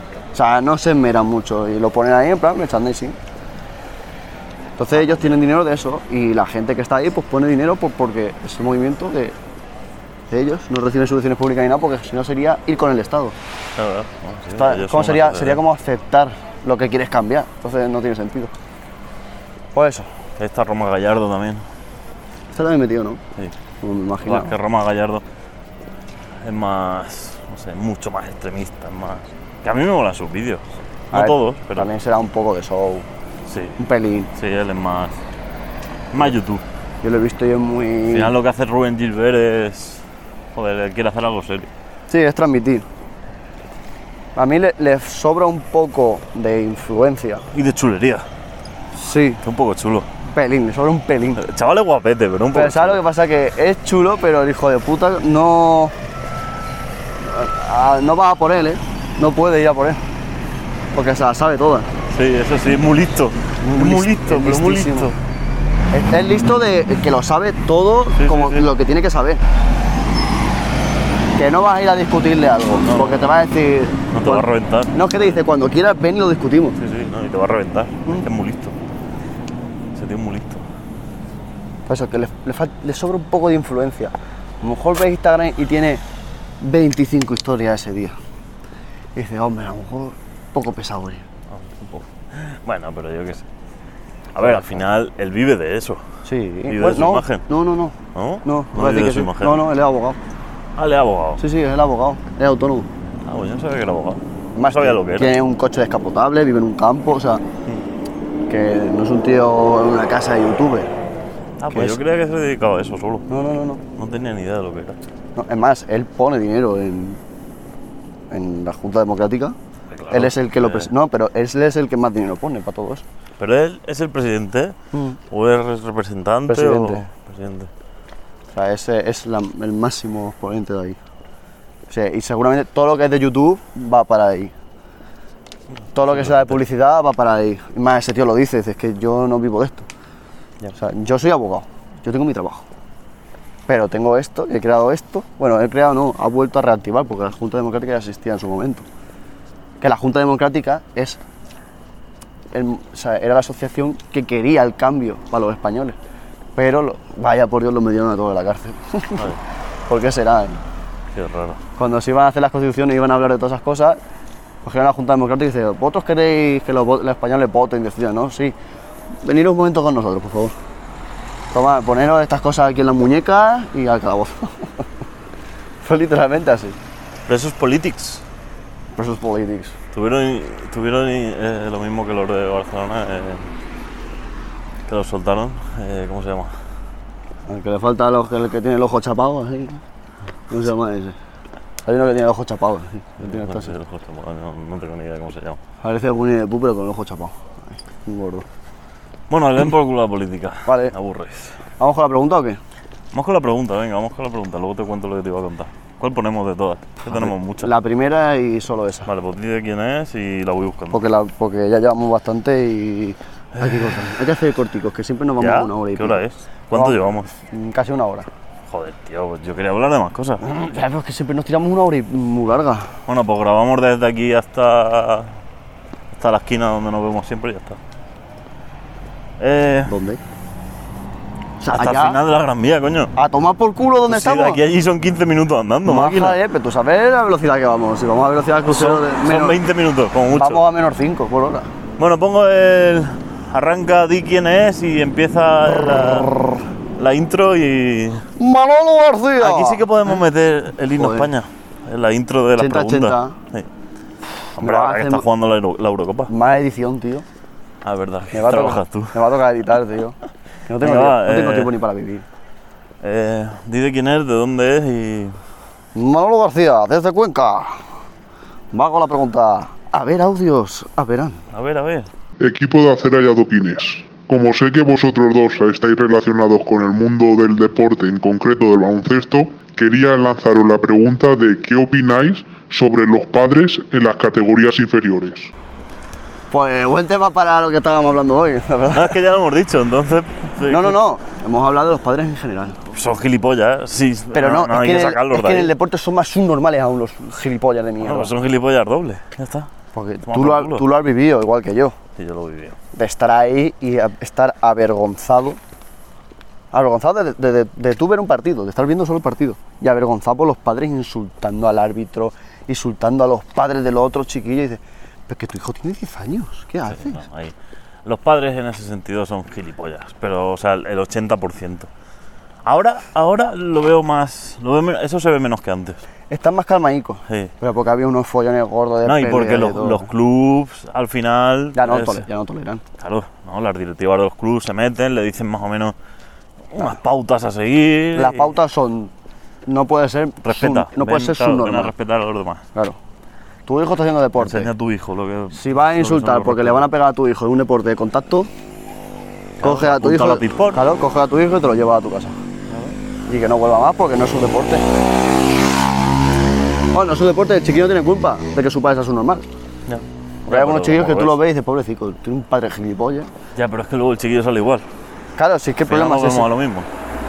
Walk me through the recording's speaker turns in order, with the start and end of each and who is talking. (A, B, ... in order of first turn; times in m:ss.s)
0:00.3-0:03.2 A
0:04.8-0:09.4 A
0:04.9-0:05.3 B
0:10.3-0:13.4 A
0:13.7-0:15.6 B
0:14.5-0:18.5 A
0:19.7-0:20.1 A
0:20.4-0:21.6 B
0:22.5-0:23.2 A
0:23.8-0:24.5 A
0:24.2-0:25.2 B
0:26.4-0:31.9 B
0:31.1-0:33.1 A
0:33.4-0:33.8 B
0:33.8-0:34.3 A
0:34.3-0:35.2 B
0:36.1-0:36.6 B
0:37.0-0:38.3 A
0:38.1-0:41.7 B
0:42.1-0:42.8 A
0:44.4-0:47.4 A
0:47.5-0:48.2 B
0:49.0-0:49.4 A
0:49.4-0:50.1 B
0:50.2-0:51.4 A
0:51.4-0:53.0 B
0:52.5-0:55.9 A
0:57.2-1:00.0 A
1:00.9-1:01.9 A
1:02.1-1:05.2 B
1:03.6-1:05.1 A
1:05.9-1:09.4 A
1:08.2-1:08.7 B
1:11.4-1:16.8 A
1:12.8-1:13.2 B
1:14.1-1:15.3 B
1:16.8-1:18.8 B
1:19.9-1:20.6 B
1:21.9-1:26.0 A
1:26.6-1:28.2 A
1:29.1-1:31.2 A
1:31.5-1:33.4 B
1:34.3-1:36.0 B
1:34.4-1:34.7 A
1:36.2-1:40.2 A
1:36.7-1:37.4 B
1:38.1-1:39.6 B
1:40.8-1:41.4 B
1:41.4-1:42.9 A
1:43.2-1:45.3 B
1:44.5-1:47.4 A
1:48.5-1:50.9 A
1:51.6-1:53.3 B
1:51.7-1:52.0 A
1:53.3-1:53.8 A
1:53.9-1:55.0 B
1:55.4-1:57.2 A
1:58.3-1:59.6 A
1:59.9-2:00.9 B
2:00.1-2:03.0 A
2:03.4-2:04.8 B
2:04.9-2:05.2 A
2:05.3-2:07.7 B
2:06.5-2:07.0 A
2:08.5-2:11.0 A
2:11.9-2:14.5 A
2:15.9-2:19.9 A
2:16.0-2:16.6 B
2:20.7-2:22.6 A
2:23.7-2:28.8 A
2:29.8-2:31.2 A
2:32.5-2:36.0 A
2:36.6-2:39.4 A
2:39.9-2:40.6 A
2:41.1-2:41.6 B
2:41.8-2:44.0 A
2:44.6-2:48.5 A
2:49.2-2:50.5 A
2:51.5-2:54.8 A
2:55.8-2:56.8 A
2:57.3-2:58.2 B
2:59.0-2:59.7 A
2:59.9-3:03.5 B
3:04.8-3:06.6 B
3:07.5-3:09.8 A
3:10.5-3:11.2 A
3:11.8-3:13.7 A
3:13.2-3:15.6 B
3:15.8-3:18.4 A
3:19.3-3:21.6 B
3:20.6-3:20.9 A
3:21.8-3:22.6 A
3:23.1-3:27.7 B
3:27.0-3:29.1 A
3:29.0-3:31.0 B
3:30.9-3:38.3 A
3:35.4-3:37.3 B
3:38.7-3:40.4 B
3:40.4-3:42.9 A
3:43.1-3:45.4 B
3:46.1-3:47.8 B
3:49.4-3:49.9 B
3:49.9-3:50.2 A
3:51.6-3:52.2 A
3:51.7-3:53.1 B
3:53.2-3:54.6 A
3:54.1-3:56.4 B
3:55.8-3:59.6 A
3:58.6-4:00.6 B
4:00.4-4:01.7 A
4:02.0-4:06.3 B
4:07.0-4:08.2 B
4:08.4-4:10.1 A
4:09.4-4:13.7 B
4:11.0-4:11.3 A
4:12.6-4:13.4 A
4:14.5-4:16.3 B
4:14.6-4:15.2 A
4:16.3-4:17.2 A
4:17.8-4:19.2 B
4:18.3-4:20.2 A
4:20.7-4:22.2 A
4:20.8-4:21.7 B
4:23.0-4:25.4 B
4:25.9-4:27.8 A
4:28.7-4:31.4 A
4:31.5-4:32.1 B
4:32.4-4:45.5 C
4:46.5-4:49.2 A
4:48.9-4:51.0 B
4:50.7-4:52.8 A
4:52.9-4:55.7 B
4:54.3-4:58.3 A
4:58.0-4:59.7 B
4:59.9-5:02.0 A
5:00.2-5:00.8 B
5:02.2-5:02.8 B
5:02.9-5:05.6 A
5:06.7-5:17.2 A
5:16.9-5:21.9 B
5:22.6-5:26.0 B
5:26.3-5:30.1 A
5:29.0-5:32.2 B
5:31.8-5:32.8 A
5:33.0-5:36.0 B
5:36.7-5:38.5 B
5:38.1-5:39.1 A
5:39.6-5:41.9 A
5:40.4-5:42.6 B
5:43.6-5:44.7 A
5:44.4-5:46.9 B
5:45.5-5:48.5 A
5:49.6-5:50.8 B
5:49.6-5:52.4 A
5:52.7-5:53.0 B
5:53.3-5:54.8 A
5:56.9-5:59.4 A
5:59.8-6:01.4 B
6:00.5-6:03.3 A
6:03.5-6:04.8 B
6:05.4-6:06.5 A
6:05.8-6:06.9 B